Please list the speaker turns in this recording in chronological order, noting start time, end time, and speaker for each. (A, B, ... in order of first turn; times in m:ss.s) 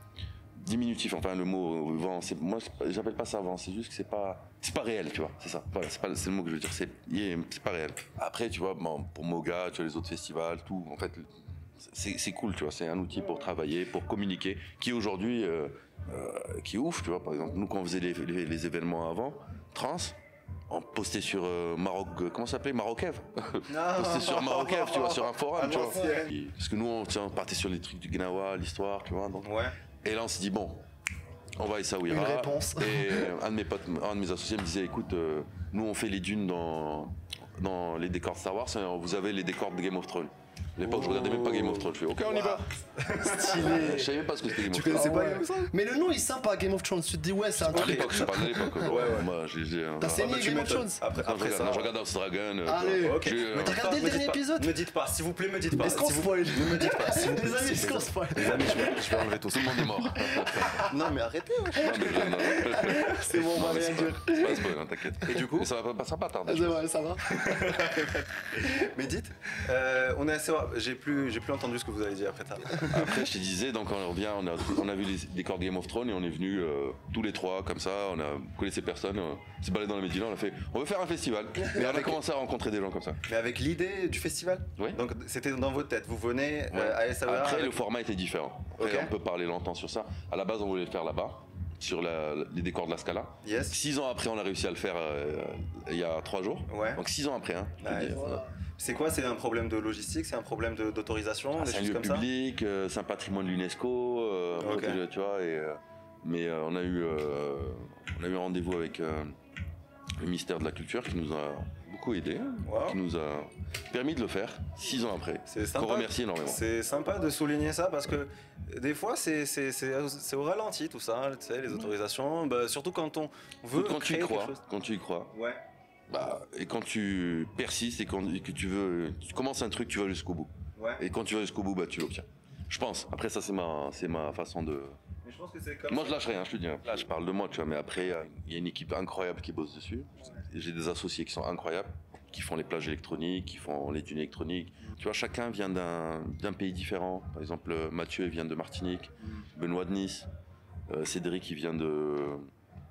0:00.5-0:20.2 A
0:20.7-0:30.8 A
0:23.7-0:26.3 B
0:29.4-0:29.8 B
0:31.6-0:42.6 A
0:32.1-0:33.3 C
0:40.8-0:43.9 B
0:42.1-0:42.6 C
0:43.2-0:44.1 C
0:43.4-0:45.2 A
0:44.5-0:45.7 B
0:44.8-0:48.9 C
0:47.5-0:50.3 A
0:47.7-0:49.3 B
0:50.0-0:51.0 C
0:50.1-0:51.9 B
0:51.1-0:53.8 A
0:52.6-0:54.7 C
0:53.0-1:00.0 B
0:55.8-0:59.0 C
0:59.5-1:00.9 A
1:00.3-1:00.9 C
1:00.8-1:02.3 B
1:01.8-1:06.9 A
1:02.0-1:04.7 C
1:05.2-1:05.7 B
1:06.5-1:07.7 C
1:07.3-1:13.1 B
1:12.9-1:23.2 A
1:21.7-1:22.2 B
1:23.3-1:27.8 B
1:26.7-1:38.5 A
1:28.8-1:29.1 B
1:33.4-1:33.8 B
1:36.7-1:37.0 B
1:37.8-1:38.2 B
1:38.2-1:38.4 C
1:38.8-1:42.2 B
1:41.6-1:49.3 A
1:44.6-1:45.0 B
1:50.2-1:56.6 A
1:52.6-1:53.0 B
1:55.5-2:04.6 B
2:03.7-2:05.3 A
2:05.3-2:05.6 B
2:06.1-2:15.0 A
2:10.8-2:11.0 B
2:15.2-2:16.3 B
2:15.9-2:30.3 A
2:30.9-2:32.5 A